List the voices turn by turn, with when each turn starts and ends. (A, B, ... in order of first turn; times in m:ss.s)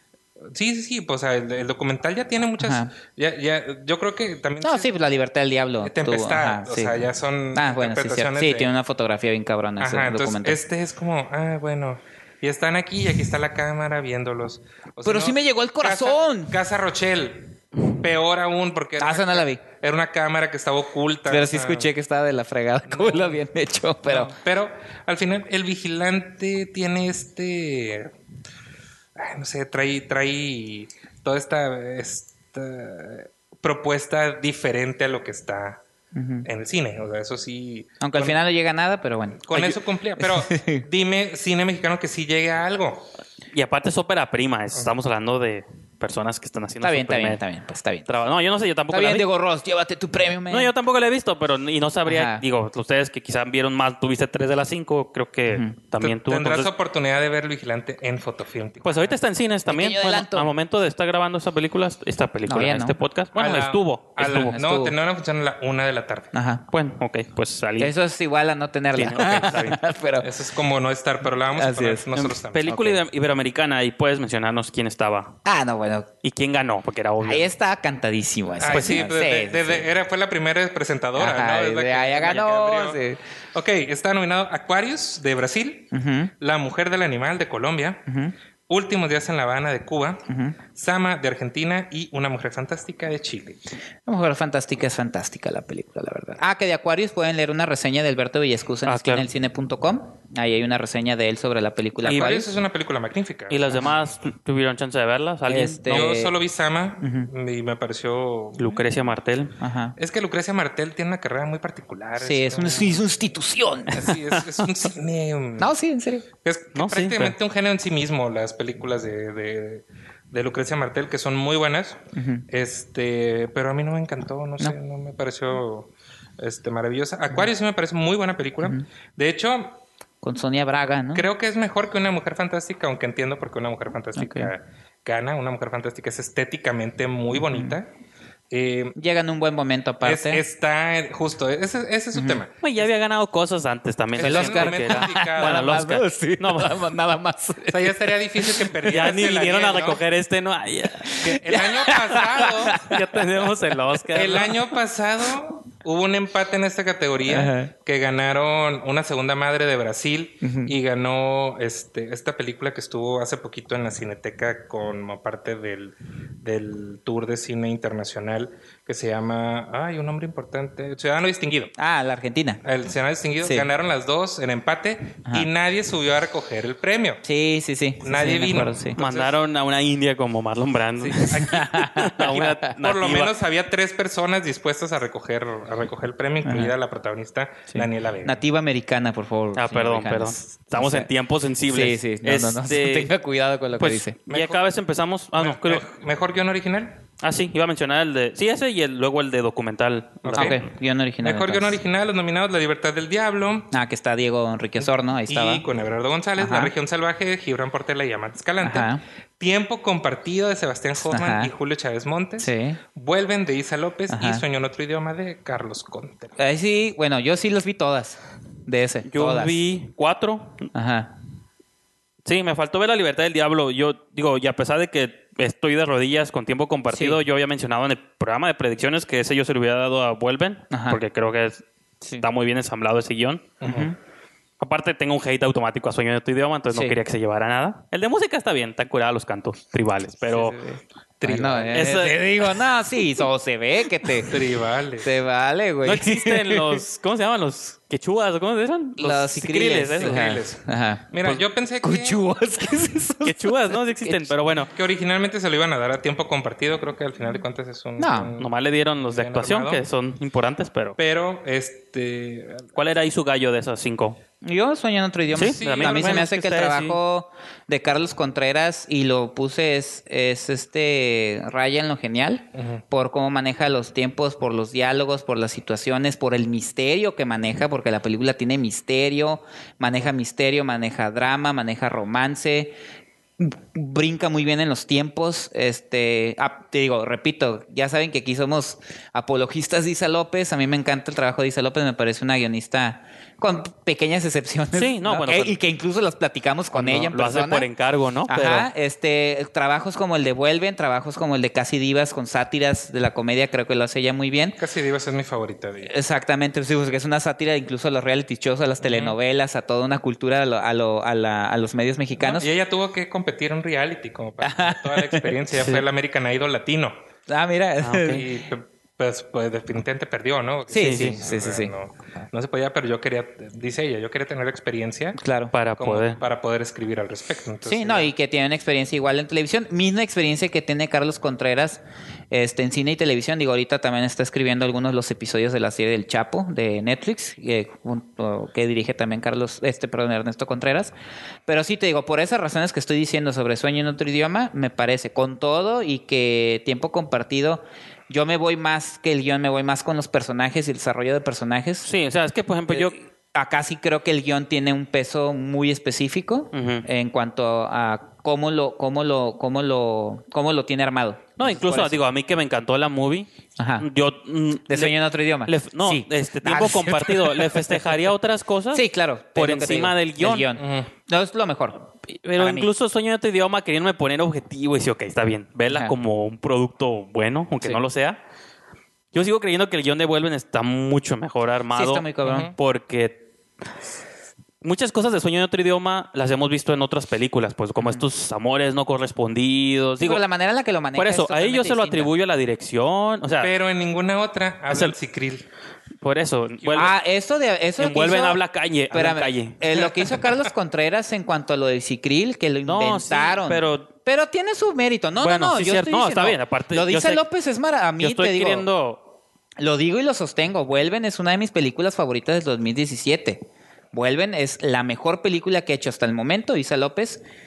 0:00.4-0:04.9 A
0:02.6-0:02.9 B
0:04.6-0:07.0 B
0:05.8-0:08.7 A
0:07.5-0:10.6 B
0:09.8-0:21.9 A
0:15.0-0:16.5 B
0:19.0-0:19.6 B
0:21.3-0:24.3 B
0:22.9-0:23.4 A
0:24.1-0:28.1 A
0:29.1-0:35.8 A
0:36.1-0:36.5 B
0:36.4-0:38.4 A
0:38.0-0:40.8 B
0:39.4-0:43.1 A
0:43.5-0:47.4 C
0:46.8-0:48.1 B
0:48.1-0:49.3 C
0:48.9-0:50.7 B
0:50.5-0:56.7 C
0:52.1-0:52.4 B
0:56.0-0:59.2 A
0:58.8-1:04.5 C
0:59.7-1:00.5 B
1:02.5-1:03.0 B
1:03.3-1:06.3 A
1:04.2-1:04.9 B
1:06.3-1:06.6 B
1:06.7-1:07.9 C
1:07.8-1:10.3 B
1:08.9-1:09.8 C
1:10.2-1:12.7 A
1:11.5-1:12.1 B
1:12.1-1:15.4 C
1:12.7-1:13.0 B
1:15.4-1:16.1 B
1:16.2-1:17.5 C
1:17.2-1:19.9 B
1:18.6-1:23.0 A
1:18.7-1:19.0 C
1:21.2-1:23.2 B
1:23.5-1:28.0 A
1:25.9-1:26.3 B
1:28.1-1:28.3 B
1:28.7-1:33.6 A
1:30.3-1:30.6 B
1:34.0-1:42.5 B
1:38.8-1:39.3 C
1:42.0-1:44.1 A
1:42.0-1:42.3 C
1:43.5-1:46.1 C
1:45.5-1:46.3 B
1:45.9-1:48.8 A
1:47.0-1:47.3 B
1:48.6-1:49.5 C
1:49.6-1:50.0 B
1:50.0-1:53.0 A
1:52.2-1:54.1 B
1:53.9-1:55.7 A
1:55.6-1:56.3 B
1:56.4-2:09.8 A
1:56.7-1:57.3 C
2:02.1-2:02.4 B
2:10.2-2:11.3 B
2:11.1-2:17.9 A
2:14.2-2:14.5 B
2:17.5-2:17.8 B
2:18.5-2:19.0 A
2:19.0-2:20.4 B
2:20.0-2:22.8 A
2:22.1-2:22.4 B
2:22.6-2:26.9 C
2:24.1-2:25.8 A
2:24.2-2:28.9 B
2:27.7-2:30.0 A
2:28.9-2:31.1 C
2:31.0-2:33.4 B
2:31.2-2:32.8 A
2:32.7-2:34.6 C
2:34.1-2:51.7 A
2:37.3-2:37.7 B
2:40.4-2:40.7 B
2:51.8-2:52.6 B
2:52.6-2:57.2 A
2:53.4-2:53.7 B
2:57.2-2:59.0 B
2:58.0-2:59.3 A
2:59.0-3:03.3 C
3:01.0-3:01.7 A
3:01.4-3:02.7 B
3:02.6-3:08.4 A
3:06.4-3:06.7 B
3:07.7-3:11.1 B
3:09.6-3:13.1 C
3:11.7-3:14.2 B
3:13.8-3:15.8 C
3:14.3-3:14.7 A
3:15.4-3:17.0 A
3:17.2-3:20.6 C
3:20.2-3:20.6 A
3:20.3-3:21.8 B
3:21.2-3:23.7 A
3:23.7-3:25.6 B
3:24.8-3:36.4 A
3:26.4-3:26.7 B
3:28.6-3:29.0 B
3:31.0-3:31.5 B
3:32.4-3:32.8 B
3:34.1-3:34.4 B
3:36.4-3:39.6 B
3:39.1-3:40.7 C
3:40.7-3:41.1 B
3:42.2-3:51.6 C
3:46.9-3:47.2 B
3:50.7-3:51.0 B
3:52.2-3:53.6 C
3:53.6-3:53.9 A
3:53.6-3:54.0 B
3:54.6-4:00.6 C
3:56.7-3:57.0 B
4:00.3-4:04.4 B
4:01.2-4:02.1 A
4:01.7-4:02.2 C
4:04.2-4:05.1 A
4:05.0-4:06.8 B
4:05.8-4:10.4 C
4:09.0-4:11.1 B
4:10.0-4:12.2 A
4:11.8-4:14.3 B
4:13.2-4:14.7 C
4:14.7-4:19.8 A
4:18.0-4:18.3 B
4:18.4-4:21.0 C
4:21.0-4:22.7 A
4:22.7-4:24.2 C
4:24.4-4:42.8 B
4:25.3-4:27.0 C
4:25.4-4:26.3 A
4:32.5-4:32.8 A
4:43.4-4:57.7 B
4:54.7-4:55.6 C
4:56.7-4:58.7 C
4:58.3-5:04.6 B
5:04.6-5:05.9 A
5:05.8-5:12.5 B
5:08.8-5:09.2 A
5:12.2-5:17.0 A
5:14.4-5:15.4 B
5:15.5-5:15.8 C
5:17.3-5:18.2 B
5:17.8-5:18.2 C
5:18.1-5:25.2 A
5:20.7-5:21.7 B
5:20.8-5:21.2 C
5:25.2-5:25.5 B
5:25.5-5:26.2 C
5:25.8-5:28.1 A
5:27.6-5:40.9 B
5:41.5-5:51.9 B
5:51.8-5:52.9 C
5:52.7-6:02.0 B
5:56.5-5:56.8 C
6:01.4-6:03.3 C
6:03.6-6:03.8 B
6:03.8-6:08.8 C
6:04.7-6:07.9 B
6:08.7-6:12.7 B
6:09.4-6:10.5 C
6:10.6-6:10.9 A
6:12.2-6:18.2 C
6:15.7-6:15.9 B
6:19.1-6:23.2 C
6:21.7-6:22.5 B
6:22.2-6:22.5 A
6:24.6-6:30.2 C
6:27.8-6:28.0 B
6:30.0-6:32.1 B
6:30.9-6:33.5 C
6:33.4-6:35.4 A
6:34.7-6:34.9 C
6:36.0-6:36.9 C
6:36.6-6:36.9 A
6:36.8-6:38.4 B
6:37.8-6:39.6 C
6:38.9-6:48.6 B
6:42.6-6:43.9 C
6:45.2-6:47.2 C
6:48.0-6:49.0 C
6:49.6-6:57.2 B